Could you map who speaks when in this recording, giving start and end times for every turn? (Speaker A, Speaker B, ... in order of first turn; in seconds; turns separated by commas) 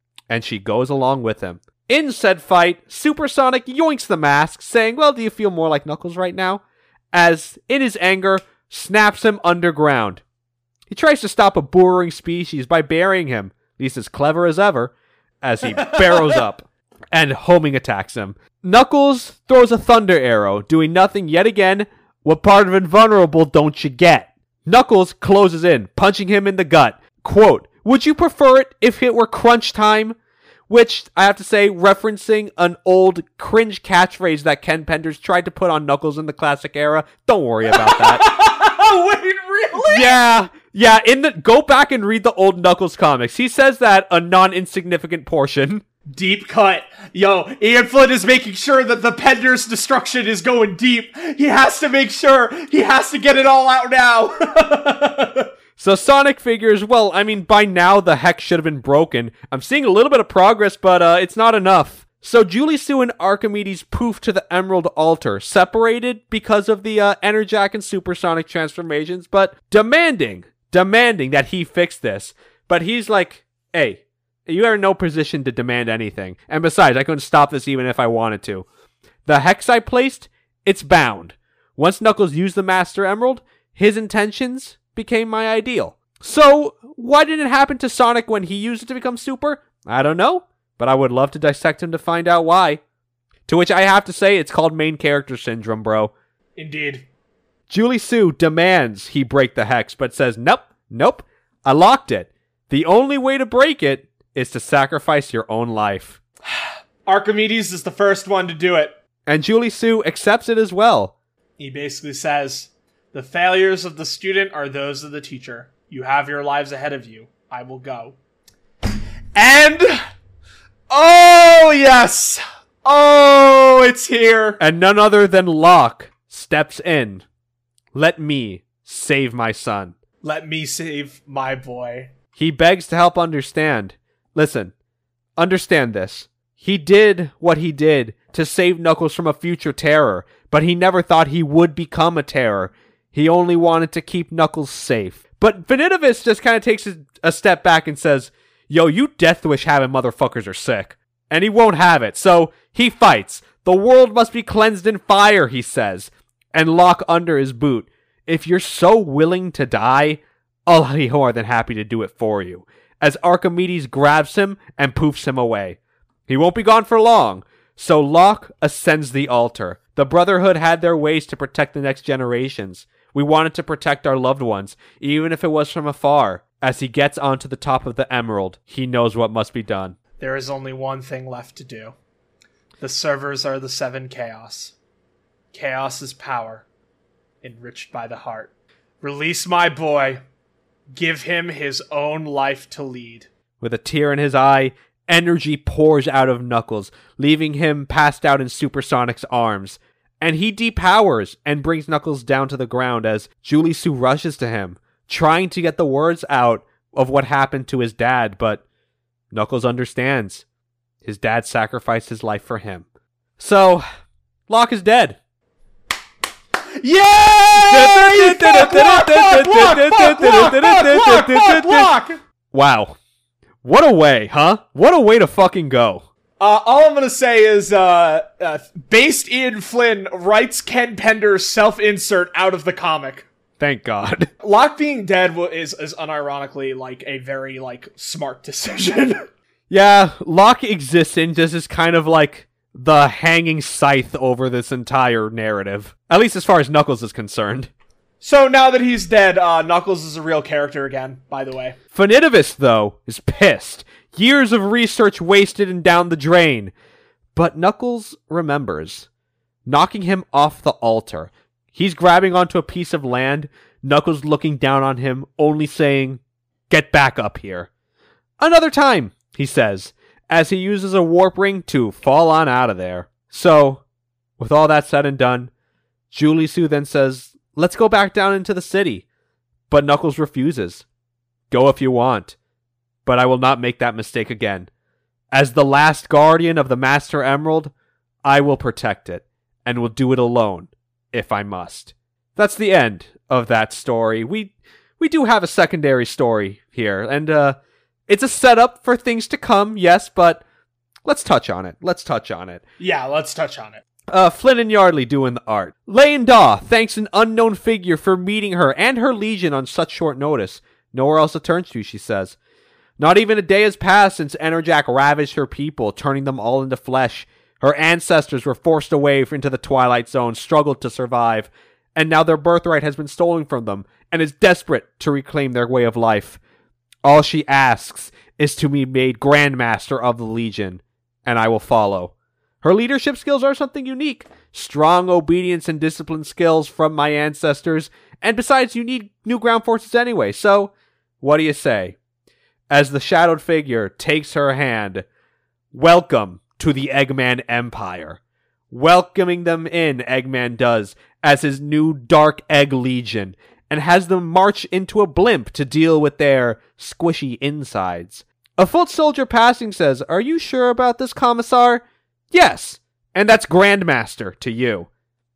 Speaker A: 0.3-6.6, Speaker A: 7.1-10.2, Speaker A: 10.9-30.1, Speaker B: 15.8-16.4, Speaker A: 30.7-38.3, Speaker B: 37.7-40.1, Speaker A: 39.9-45.8, Speaker B: 46.1-55.5, Speaker A: 55.8-78.7, Speaker A: 79.2-92.8, Speaker A: 93.5-96.1, Speaker B: 96.6-97.0, Speaker A: 97.7-106.2, Speaker B: 107.0-109.0, Speaker A: 109.2-111.1, Speaker B: 111.6-118.2, Speaker B: 119.3-120.0, Speaker B: 120.9-124.6, Speaker A: 124.6-127.2, Speaker A: 127.9-129.9, Speaker B: 130.2-132.1, Speaker A: 132.3-134.7, Speaker A: 135.4-179.9, Speaker B: 180.2-181.9, Speaker B: 182.8-184.7, Speaker B: 185.5-186.6, Speaker B: 187.4-188.5, Speaker B: 189.0-190.2, Speaker B: 190.9-193.3, Speaker A: 193.6-208.6, Speaker A: 209.3-210.4, Speaker A: 211.0-212.8, Speaker A: 213.4-213.8, Speaker A: 214.5-215.2, Speaker B: 216.8-222.2, Speaker A: 217.7-221.9, Speaker A: 222.5-222.9, Speaker A: 223.6-226.1, Speaker B: 226.4-233.3, Speaker A: 233.6-234.3, Speaker B: 234.4-239.2, Speaker A: 239.7-247.7, Speaker B: 248.2-251.8, Speaker A: 251.9-256.7, Speaker A: 257.3-259.1, Speaker A: 259.6-267.7, Speaker A: 268.4-273.8, Speaker A: 274.4-275.5, Speaker A: 276.1-279.0, Speaker A: 279.7-280.8, Speaker A: 281.5-282.4, Speaker A: 283.0-284.7, Speaker A: 285.3-287.7, Speaker A: 288.2-297.6, Speaker A: 298.1-300.4, Speaker A: 301.0-302.6, Speaker B: 302.8-303.8, Speaker A: 304.1-312.4, Speaker A: 313.0-326.4, Speaker A: 327.0-341.9, Speaker A: 342.7-345.1, Speaker A: 345.7-364.9